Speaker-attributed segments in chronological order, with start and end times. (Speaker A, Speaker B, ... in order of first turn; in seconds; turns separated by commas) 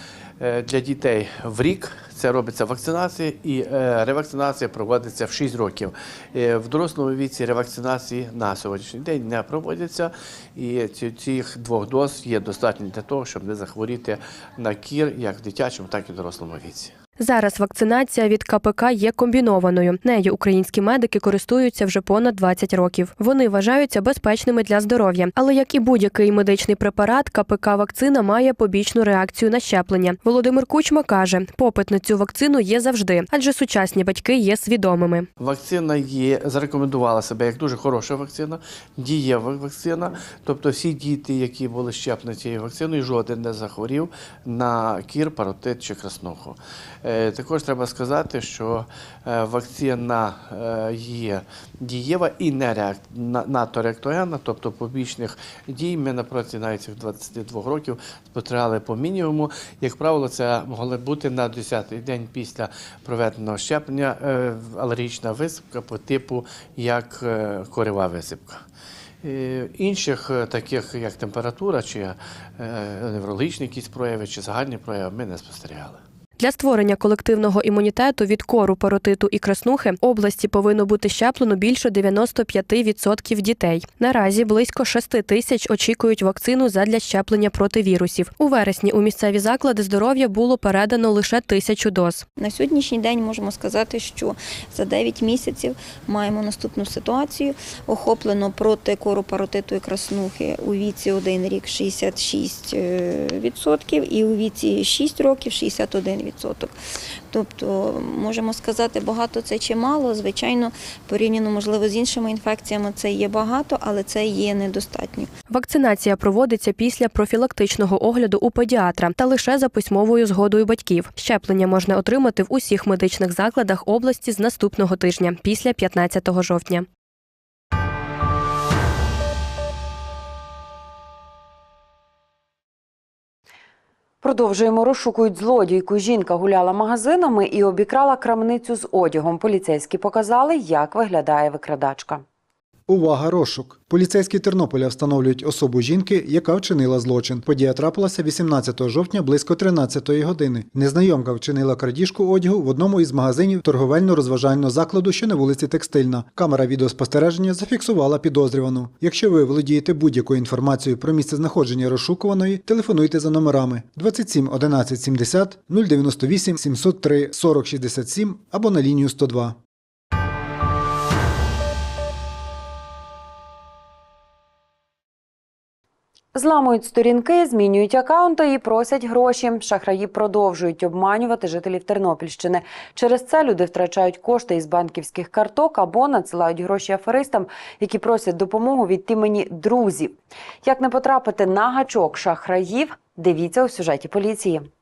Speaker A: 0.4-16.9, Speaker B: 17.2-35.3, Speaker A: 35.4-68.6, Speaker A: 69.2-76.0, Speaker B: 76.4-92.2, Speaker C: 92.4-106.7, Speaker C: 107.3-115.3, Speaker B: 115.5-126.8, Speaker D: 134.2-142.2, Speaker E: 142.9-169.6, Speaker D: 176.3-194.7